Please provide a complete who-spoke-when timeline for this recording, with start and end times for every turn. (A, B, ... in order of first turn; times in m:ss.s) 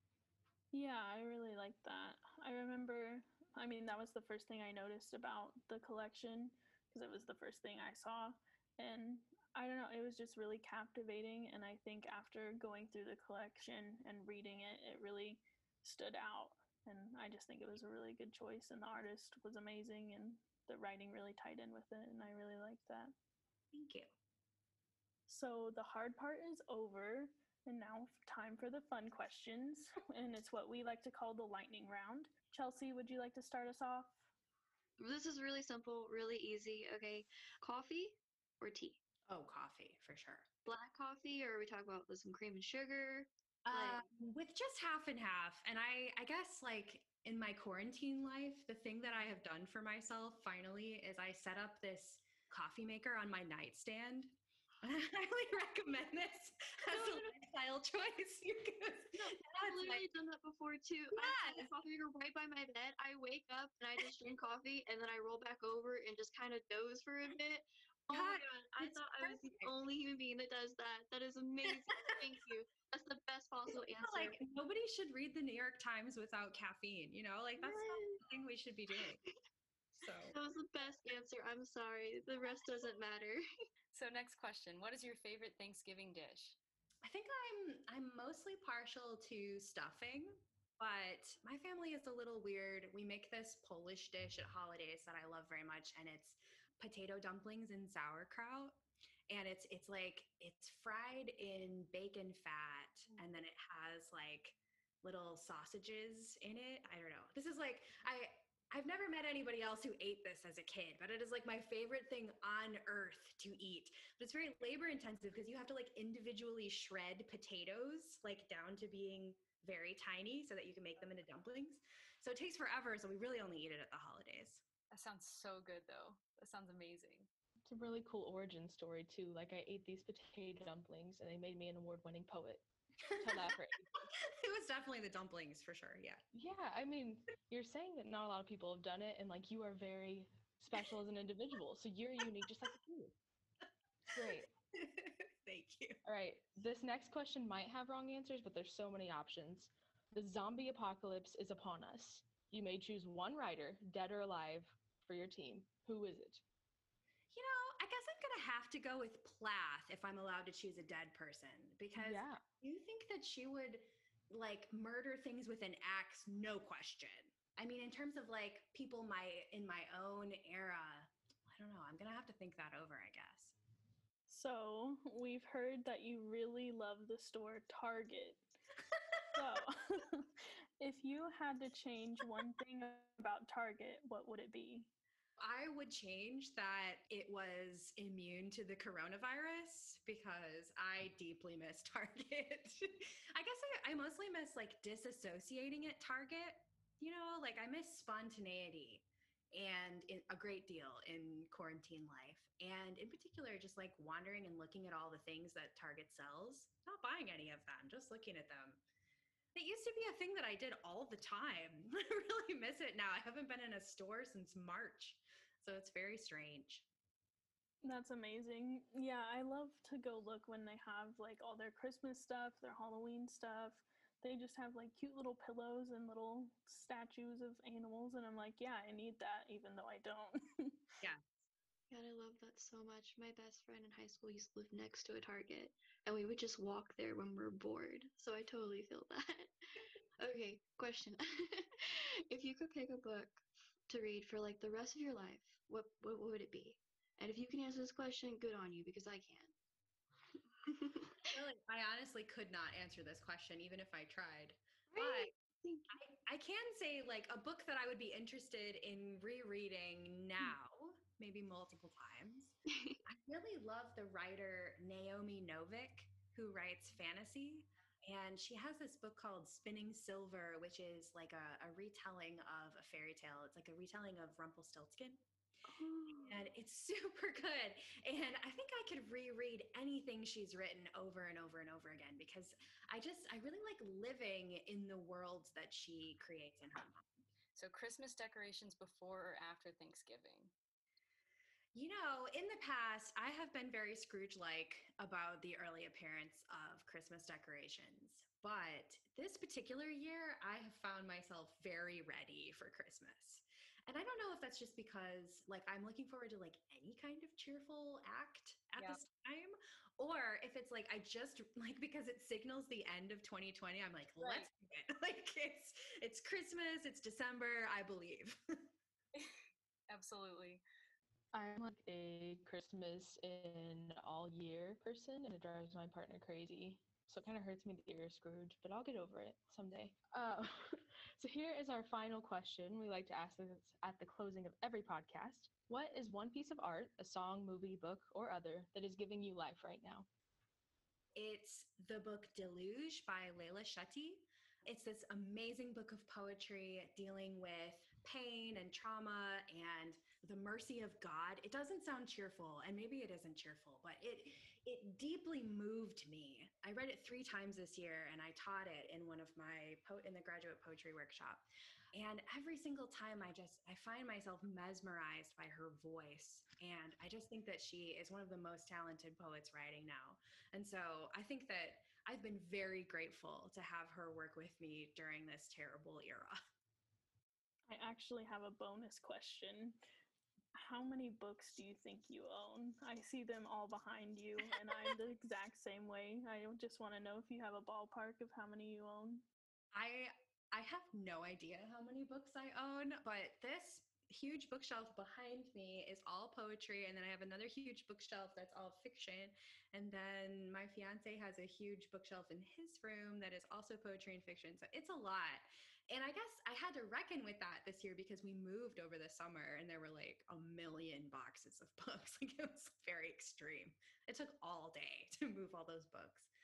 0:00.7-0:23.1 A
0:23.7-0:24.1 B
0:25.3-0:34.2 A
0:35.0-0:39.0 C
0:39.3-0:40.5 B
0:40.6-0:44.1 C
0:43.6-1:00.1 B
0:56.9-0:57.4 C
0:59.2-1:14.4 C
1:01.1-1:01.7 B
1:08.1-1:09.8 B
1:11.6-1:12.4 B
1:13.9-1:19.2 B
1:17.6-1:18.2 C
1:18.9-1:19.4 C
1:20.0-1:20.4 B
1:20.0-1:23.4 C
1:23.9-1:26.6 D
1:27.0-1:38.8 B
1:39.3-2:04.6 B
2:04.9-2:07.3 D
2:07.6-2:12.6 E
2:13.1-2:13.4 B
2:13.2-2:13.9 E
2:14.2-2:16.2 B
2:16.3-2:23.1 E
2:24.1-2:24.5 E
2:24.8-2:26.0 B
2:26.0-2:36.4 E
2:37.3-2:53.6 B
2:42.0-2:42.4 E
2:54.3-2:58.5 A
2:59.3-3:00.2 A
3:00.8-3:04.9 A
3:05.4-3:28.8 B
3:29.6-3:36.9 B
3:37.8-3:50.8 A
3:51.9-3:59.5 C
4:00.2-4:09.5 C
4:10.6-4:11.4 C
4:11.3-4:15.3 B
4:14.9-4:16.0 C
4:15.9-4:22.5 B
4:22.7-4:23.0 C
4:23.1-4:35.2 B
4:35.6-4:36.4 C
4:36.1-4:47.0 B
4:47.6-4:50.5 D
4:51.7-5:18.4 B
5:14.2-5:14.5 D
5:19.9-5:20.6 D
5:21.3-5:40.1 E
5:41.2-6:16.4 B
6:17.7-6:19.8 A
6:20.5-6:29.2 A
6:29.7-6:56.3 B